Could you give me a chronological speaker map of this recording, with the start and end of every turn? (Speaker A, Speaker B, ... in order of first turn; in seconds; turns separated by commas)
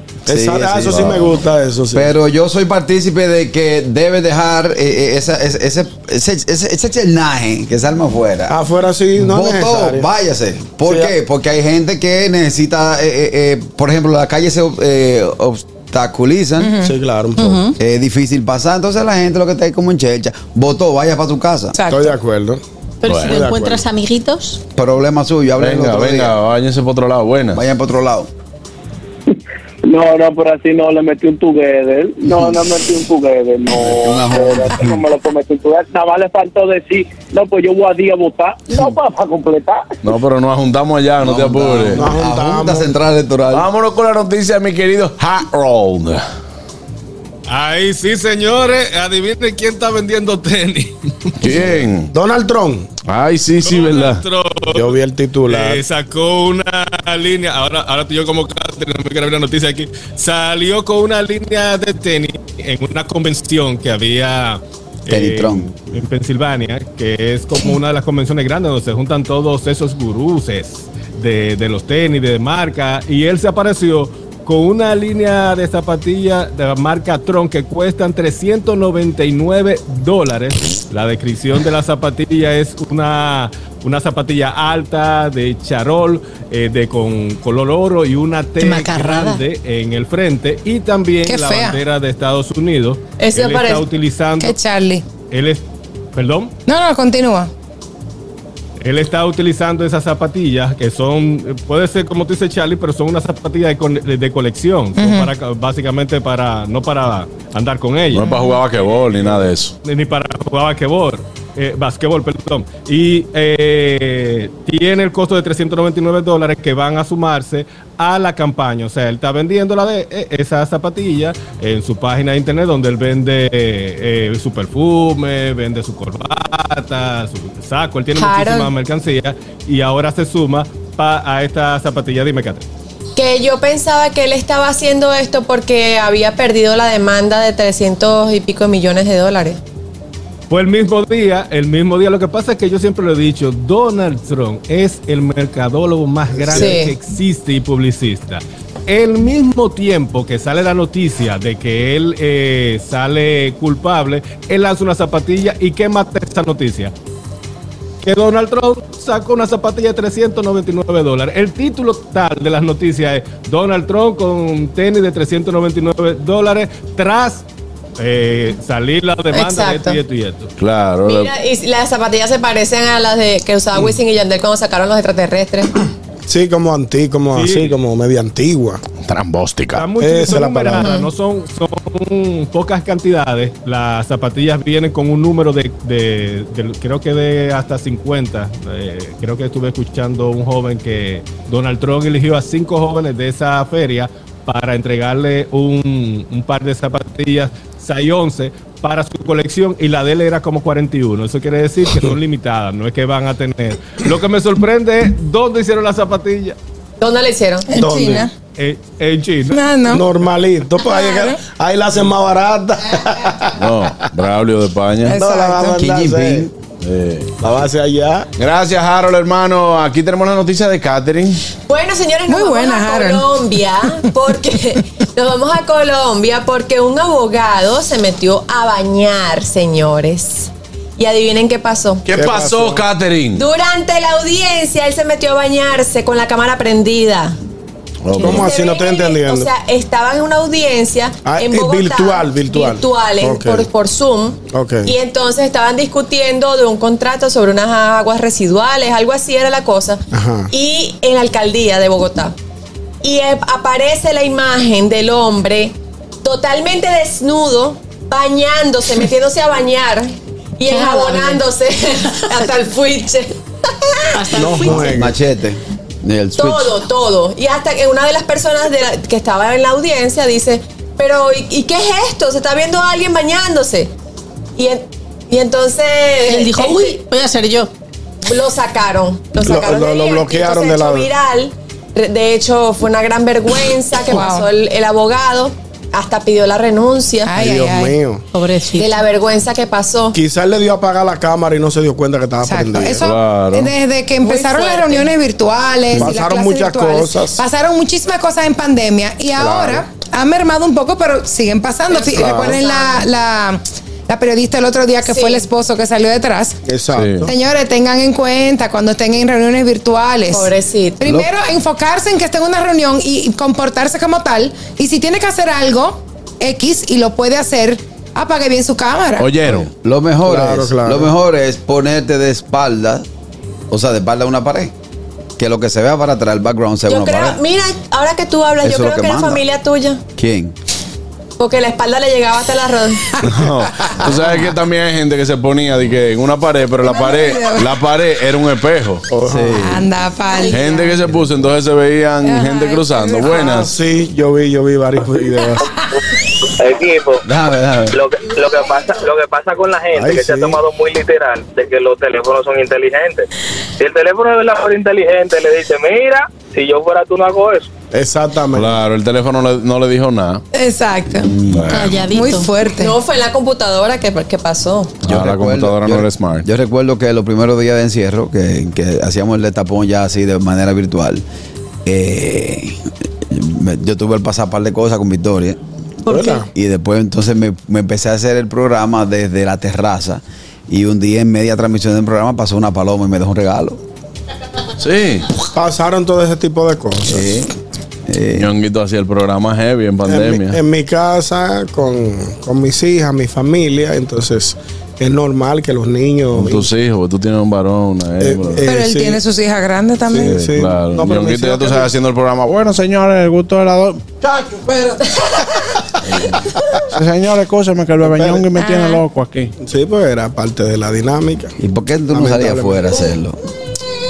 Speaker A: 0.3-1.3, Speaker B: 0.3-2.1, Speaker C: 0.9-1.2, Speaker A: 1.9-8.6, Speaker B: 8.5-10.1, Speaker A: 9.2-16.8, Speaker B: 10.9-11.1, Speaker D: 16.6-16.9, Speaker B: 16.8-17.6, Speaker E: 17.4-17.8, Speaker A: 17.8-21.8, Speaker D: 21.8-22.2, Speaker B: 21.9-22.6, Speaker E: 23.0-24.6, Speaker C: 23.1-23.4, Speaker B: 23.2-23.8, Speaker A: 24.8-26.4, Speaker C: 25.6-27.6, Speaker A: 27.5-28.3, Speaker F: 29.9-39.9, Speaker A: 33.7-34.9, Speaker C: 40.0-42.1, Speaker A: 41.2-43.7, Speaker B: 42.0-42.9, Speaker C: 43.5-46.2, Speaker G: 47.5-51.4, Speaker C: 51.4-52.1, Speaker B: 52.1-52.9, Speaker C: 53.1-54.2, Speaker G: 53.6-94.6, Speaker B: 54.7-55.8, Speaker A: 65.1-65.7, Speaker E: 88.6-89.4, Speaker D: 91.3-91.8, Speaker H: 93.2-93.9, Speaker D: 94.4-95.0, Speaker G: 95.3-96.5, Speaker D: 96.7-97.5, Speaker G: 98.8-132.6, Speaker D: 105.0-105.3, Speaker C: 108.1-109.7, Speaker D: 108.2-108.6, Speaker H: 128.2-128.7, Speaker H: 133.2-139.6, Speaker G: 140.5-156.9, Speaker B: 146.3-146.8, Speaker H: 146.5-146.9, Speaker G: 158.0-167.4, Speaker G: 168.0-170.5, Speaker H: 169.3-170.0, Speaker C: 170.6-171.3, Speaker H: 171.1-175.7, Speaker B: 176.3-178.8, Speaker G: 177.3-177.8, Speaker C: 179.0-179.9, Speaker G: 179.7-206.6, Speaker B: 180.0-181.0, Speaker H: 207.0-207.7, Speaker D: 207.7-208.3, Speaker B: 207.7-208.3, Speaker G: 208.6-209.6, Speaker D: 209.5-210.0, Speaker B: 209.9-213.7, Speaker D: 210.8-211.4, Speaker C: 213.6-215.2, Speaker D: 215.1-215.8, Speaker B: 215.1-216.5, Speaker A: 215.7-216.5, Speaker C: 216.8-217.3, Speaker B: 217.4-218.3, Speaker C: 218.4-221.4, Speaker H: 221.7-232.0, Speaker D: 222.3-223.3, Speaker C: 232.1-233.4, Speaker B: 232.1-232.8, Speaker H: 233.3-237.4, Speaker C: 238.0-238.5, Speaker B: 238.2-239.5, Speaker H: 238.2-252.3, Speaker B: 241.2-243.7, Speaker B: 244.5-244.9, Speaker B: 250.1-250.5, Speaker H: 253.0-264.3, Speaker E: 260.7-261.4, Speaker E: 264.1-265.1, Speaker B: 264.3-265.1, Speaker A: 264.6-266.8, Speaker H: 266.4-273.9, Speaker H: 274.6-277.0, Speaker E: 276.3-277.7, Speaker H: 278.2-287.4, Speaker B: 279.4-281.1, Speaker D: 284.1-284.5, Speaker D: 287.2-288.0, Speaker B: 287.4-288.2, Speaker E: 288.3-288.9, Speaker H: 288.8-290.2, Speaker B: 290.1-293.0, Speaker D: 292.4-306.6, Speaker C: 293.0-293.7, Speaker H: 294.2-295.1, Speaker B: 295.9-297.4, Speaker B: 299.4-299.8, Speaker H: 301.9-303.1, Speaker B: 302.1-302.6, Speaker H: 305.1-305.4, Speaker B: 306.7-307.3, Speaker C: 306.9-307.3, Speaker D: 307.2-319.3, Speaker H: 310.3-311.0, Speaker A: 311.0-311.3, Speaker C: 319.2-319.7, Speaker A: 319.7-323.1, Speaker B: 320.2-321.1, Speaker A: 323.7-324.7, Speaker A: 325.4-327.4, Speaker H: 326.9-330.0, Speaker A: 328.6-329.4, Speaker A: 330.2-330.6, Speaker H: 331.4-333.2, Speaker C: 333.2-339.1, Speaker D: 336.8-337.7, Speaker B: 339.1-339.5, Speaker A: 339.3-339.9, Speaker D: 339.6-341.0, Speaker C: 340.5-343.7, Speaker D: 342.2-343.5, Speaker B: 343.4-345.7, Speaker F: 346.6-347.2, Speaker A: 347.2-348.0, Speaker F: 348.0-353.2, Speaker B: 349.9-350.6, Speaker F: 353.8-357.7, Speaker B: 357.9-358.8, Speaker C: 358.5-360.4, Speaker D: 360.5-361.3, Speaker A: 361.2-361.9, Speaker C: 361.5-362.0, Speaker E: 361.7-362.5, Speaker D: 362.0-362.9, Speaker H: 362.7-364.9, Speaker C: 365.0-366.5, Speaker A: 365.1-371.2, Speaker A: 371.9-375.6, Speaker B: 376.1-376.5, Speaker E: 376.1-376.4, Speaker A: 376.5-383.8, Speaker C: 384.8-385.3, Speaker B: 385.5-387.3, Speaker A: 387.1-387.5, Speaker A: 388.1-388.5, Speaker C: 388.4-390.6, Speaker B: 390.1-396.7, Speaker C: 396.3-398.6, Speaker B: 398.2-399.2, Speaker D: 398.6-400.4, Speaker B: 400.1-401.9, Speaker C: 400.2-404.0, Speaker D: 404.7-405.0, Speaker C: 406.0-409.5, Speaker B: 408.0-408.5, Speaker D: 408.6-409.0, Speaker B: 409.6-411.5, Speaker A: 411.6-413.4, Speaker B: 412.1-412.8